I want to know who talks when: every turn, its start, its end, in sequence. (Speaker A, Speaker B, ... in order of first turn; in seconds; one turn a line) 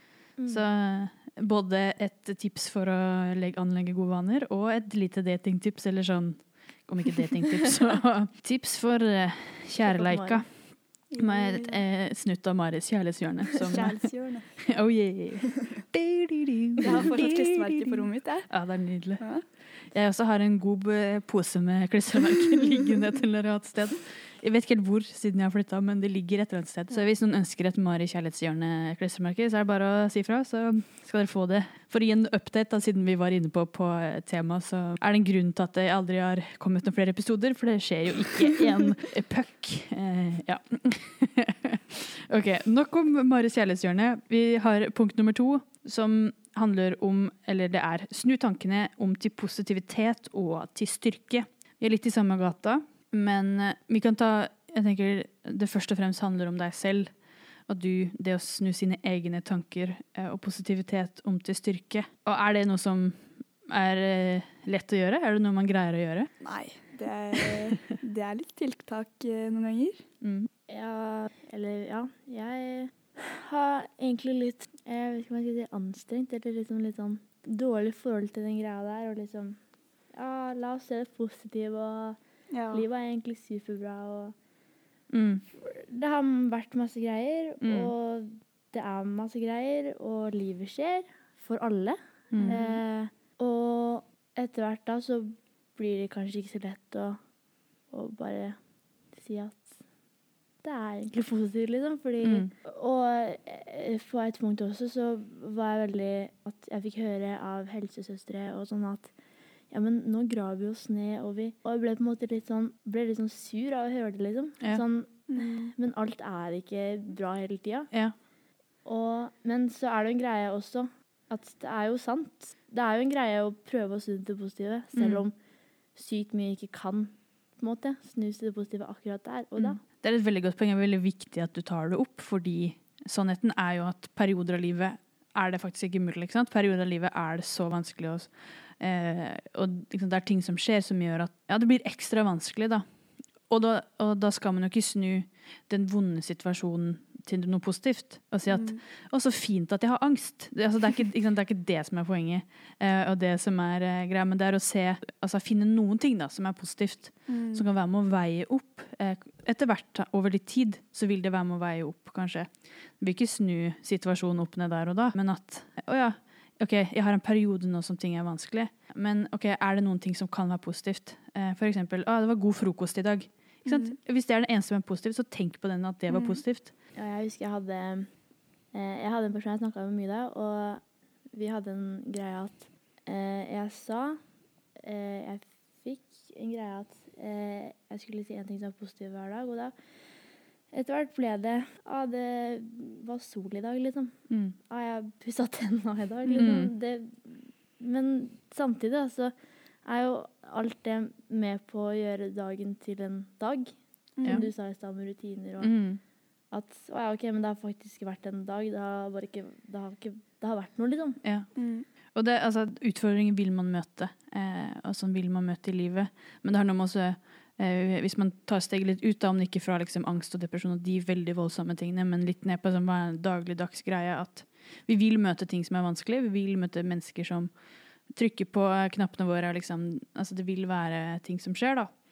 Speaker A: 0.4-0.7
Speaker B: 0.5-10.7
Speaker A: 9.8-10.4
Speaker C: 11.1-11.8
Speaker B: 11.2-14.1
Speaker C: 13.7-14.8
Speaker B: 14.7-57.1
Speaker C: 16.8-18.6
Speaker C: 19.2-19.4
Speaker B: 57.7-66.3
Speaker C: 66.4-70.0
Speaker B: 70.2-70.5
Speaker A: 70.7-79.6
Speaker A: 80.1-82.2
Speaker C: 82.5-82.8
Speaker A: 82.7-84.3
Speaker B: 85.1-85.4
Speaker A: 85.6-97.2
Speaker B: 87.6-87.9
Speaker B: 92.3-92.8
Speaker A: 97.9-98.6
Speaker A: 99.1-99.8
Speaker A: 100.6-109.1
Speaker B: 102.2-102.5
Speaker A: 109.7-117.9
Speaker C: 115.3-115.6
Speaker A: 118.8-125.3
Speaker B: 124.9-125.2
Speaker A: 126.0-129.8
Speaker B: 129.6-142.8
Speaker B: 143.5-176.7
Speaker C: 148.5-148.8
Speaker C: 157.3-157.7
Speaker C: 173.7-174.0
Speaker C: 176.1-176.4
Speaker A: 176.9-178.2
Speaker A: 178.7-184.2
Speaker A: 184.8-189.7
Speaker A: 190.7-199.3
Speaker B: 194.3-194.6
Speaker B: 196.3-196.7
Speaker A: 199.8-205.8
Speaker B: 205.6-206.0
Speaker A: 206.5-211.2
Speaker B: 211.2-211.5
Speaker C: 211.6-211.9
Speaker B: 212.1-227.5
Speaker B: 228.1-232.0